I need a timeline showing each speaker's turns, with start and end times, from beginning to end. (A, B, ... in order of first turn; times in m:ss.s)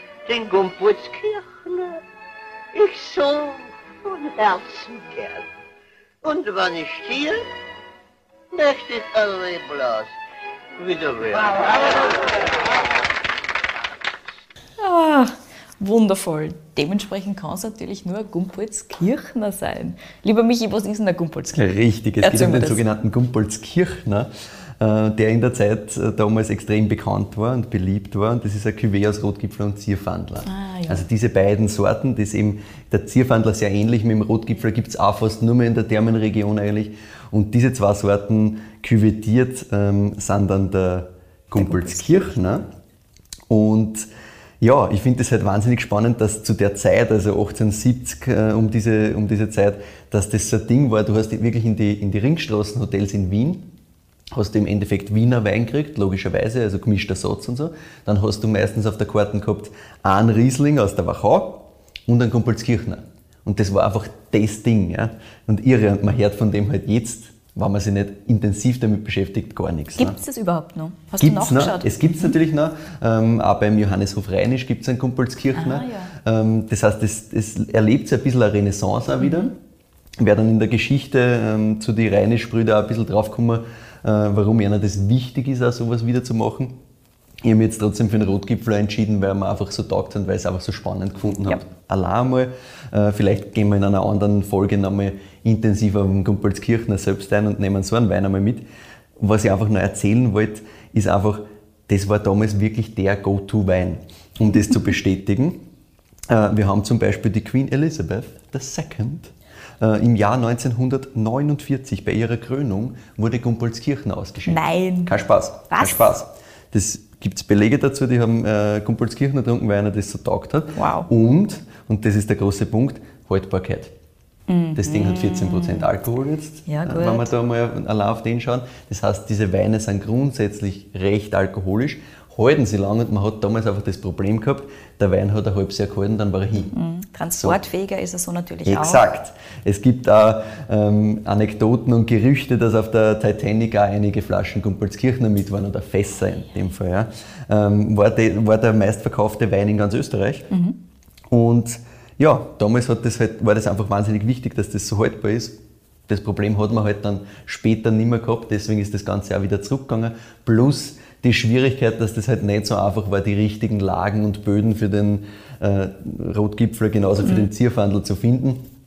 0:00.2-0:02.0 A
0:02.7-0:05.5 A
0:06.2-0:07.4 A
0:08.5-0:10.2 A
0:10.8-0:12.6 A
0:14.8-0:22.8 B
0:21.5-0:42.7 C
0:30.4-0:31.0 B
0:41.6-0:42.4 B
0:43.5-0:44.1 C
0:44.6-0:53.7 C
0:54.3-1:10.2 C
1:10.0-1:12.3 B
1:11.2-1:19.6 C
1:15.5-1:16.1 B
1:19.2-1:19.5 B
1:20.2-1:26.8 C
1:27.4-1:38.6 C
1:39.2-1:45.6 C
1:46.3-2:03.9 C
1:54.4-1:56.1 B
2:00.8-2:01.1 B
2:04.5-2:05.9 B
2:04.8-2:16.7 C
2:06.6-2:07.3 B
2:16.7-2:19.0 B
2:17.4-2:17.6 C
2:18.6-2:30.5 C
2:30.5-2:30.8 B
2:31.3-2:48.6 C